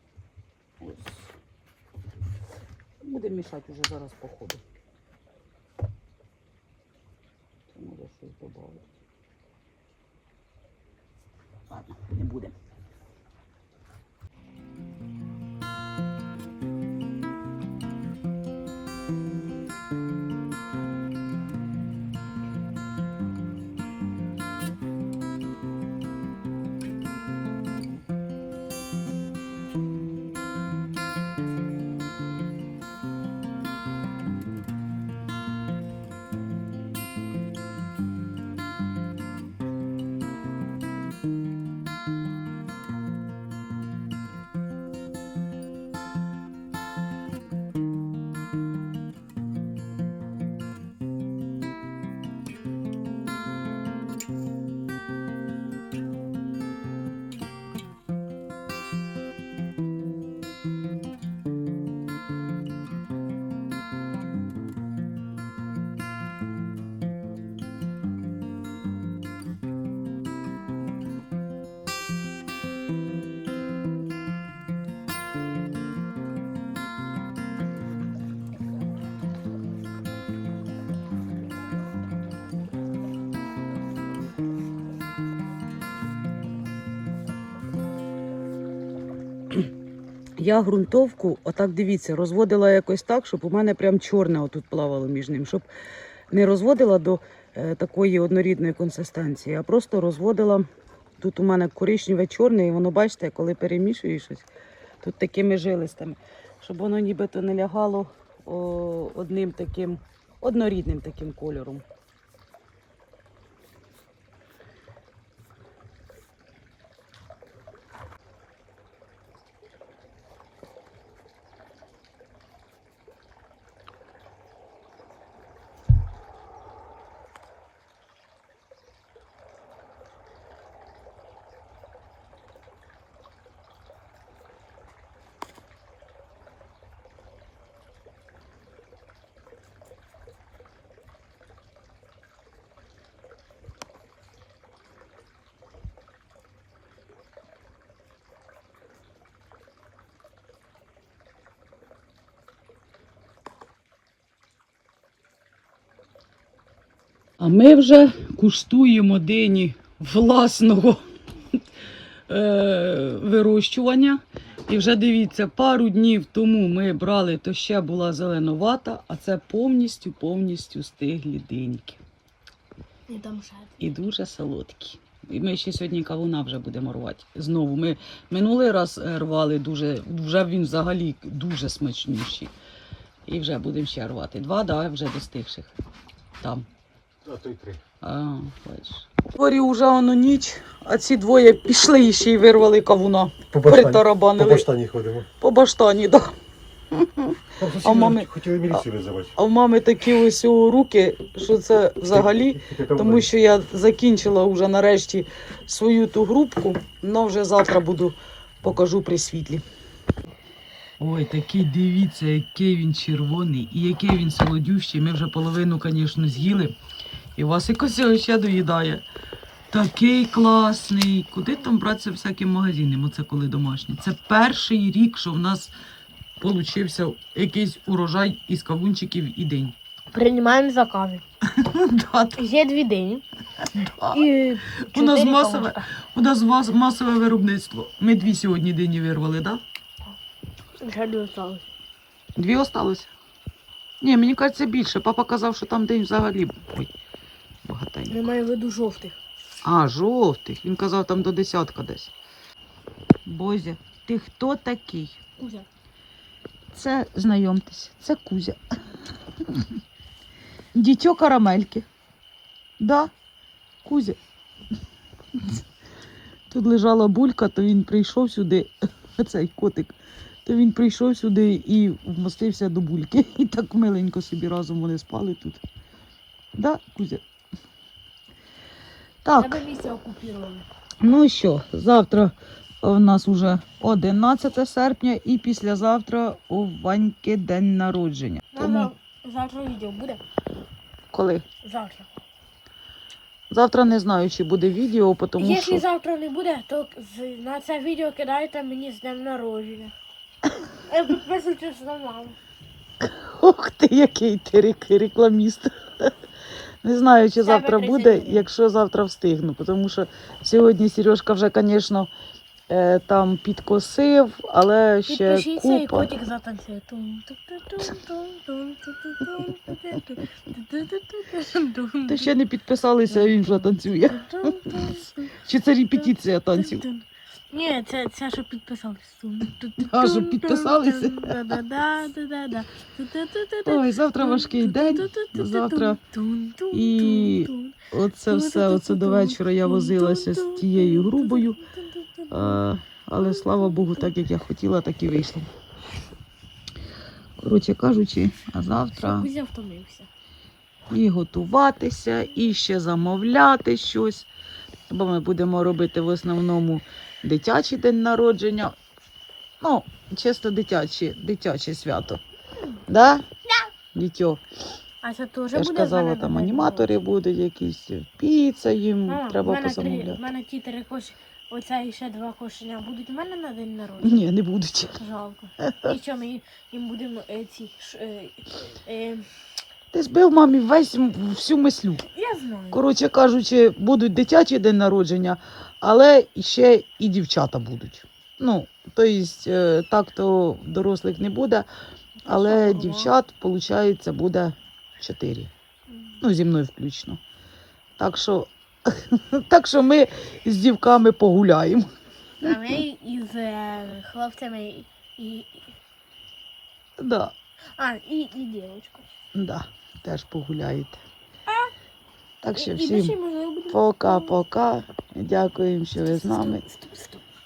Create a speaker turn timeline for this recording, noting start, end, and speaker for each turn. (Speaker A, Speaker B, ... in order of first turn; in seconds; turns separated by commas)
Speaker A: 0.8-1.4, Speaker A: 3.0-4.6, Speaker A: 7.7-8.8, Speaker A: 11.7-12.5, Speaker A: 90.4-95.7, Speaker A: 96.3-100.7, Speaker A: 101.2-104.5, Speaker A: 105.0-111.8, Speaker A: 157.4-161.0, Speaker A: 162.3-172.0, Speaker B: 173.1-173.8, Speaker A: 173.8-182.5, Speaker A: 183.2-185.7, Speaker A: 186.4-186.7, Speaker C: 187.2-187.8, Speaker A: 188.0-194.7, Speaker C: 193.5-195.3, Speaker A: 195.4-196.3, Speaker A: 196.9-198.8, Speaker C: 197.6-199.3, Speaker A: 199.3-209.6, Speaker C: 202.3-203.2, Speaker A: 211.0-216.7, Speaker A: 217.3-219.0, Speaker A: 219.7-225.7, Speaker A: 226.4-229.8, Speaker B: 230.1-231.2, Speaker A: 231.5-232.4, Speaker B: 232.3-233.2, Speaker A: 233.6-239.6, Speaker B: 234.1-235.8, Speaker B: 240.8-241.7, Speaker A: 242.3-243.1, Speaker A: 244.0-246.9, Speaker A: 247.6-248.2, Speaker B: 248.1-249.2, Speaker A: 249.6-252.1, Speaker A: 253.2-255.2, Speaker B: 255.3-255.7, Speaker A: 256.7-258.6, Speaker A: 259.4-259.7, Speaker A: 260.7-261.9, Speaker A: 262.8-263.1, Speaker A: 263.8-264.2, Speaker A: 265.4-265.6, Speaker A: 266.5-275.6, Speaker A: 276.6-277.2, Speaker A: 279.2-279.6, Speaker B: 279.3-280.7, Speaker A: 281.0-288.9, Speaker B: 288.5-290.2, Speaker A: 291.1-291.4, Speaker B: 291.6-292.1, Speaker A: 293.5-295.8, Speaker B: 295.4-299.9, Speaker B: 300.9-302.4, Speaker A: 303.0-306.1, Speaker A: 306.8-312.1, Speaker B: 307.4-308.5, Speaker A: 312.7-316.1, Speaker B: 315.1-322.3, Speaker A: 322.1-326.8, Speaker B: 323.1-325.3, Speaker B: 325.9-342.6, Speaker A: 329.8-331.6, Speaker A: 333.6-336.0, Speaker A: 336.7-341.6, Speaker A: 342.3-345.5, Speaker B: 343.2-344.1, Speaker A: 347.4-349.3, Speaker B: 348.9-350.1, Speaker A: 350.9-354.3, Speaker A: 354.9-358.8, Speaker A: 359.6-362.2, Speaker A: 362.9-363.2, Speaker A: 363.9-364.4, Speaker B: 365.0-367.0, Speaker A: 365.5-370.2, Speaker B: 369.1-374.3, Speaker A: 374.0-375.0, Speaker B: 374.9-379.3, Speaker A: 375.6-375.9, Speaker A: 379.9-382.0, Speaker B: 382.1-382.8, Speaker A: 382.7-391.7, Speaker B: 392.2-393.1, Speaker A: 392.2-395.5, Speaker A: 396.2-397.2, Speaker A: 398.0-401.9, Speaker B: 402.4-405.7, Speaker A: 407.0-407.3, Speaker B: 407.8-409.1, Speaker A: 409.3-411.0, Speaker A: 412.4-413.1, Speaker B: 412.5-414.4, Speaker A: 413.7-416.6, Speaker B: 416.0-417.2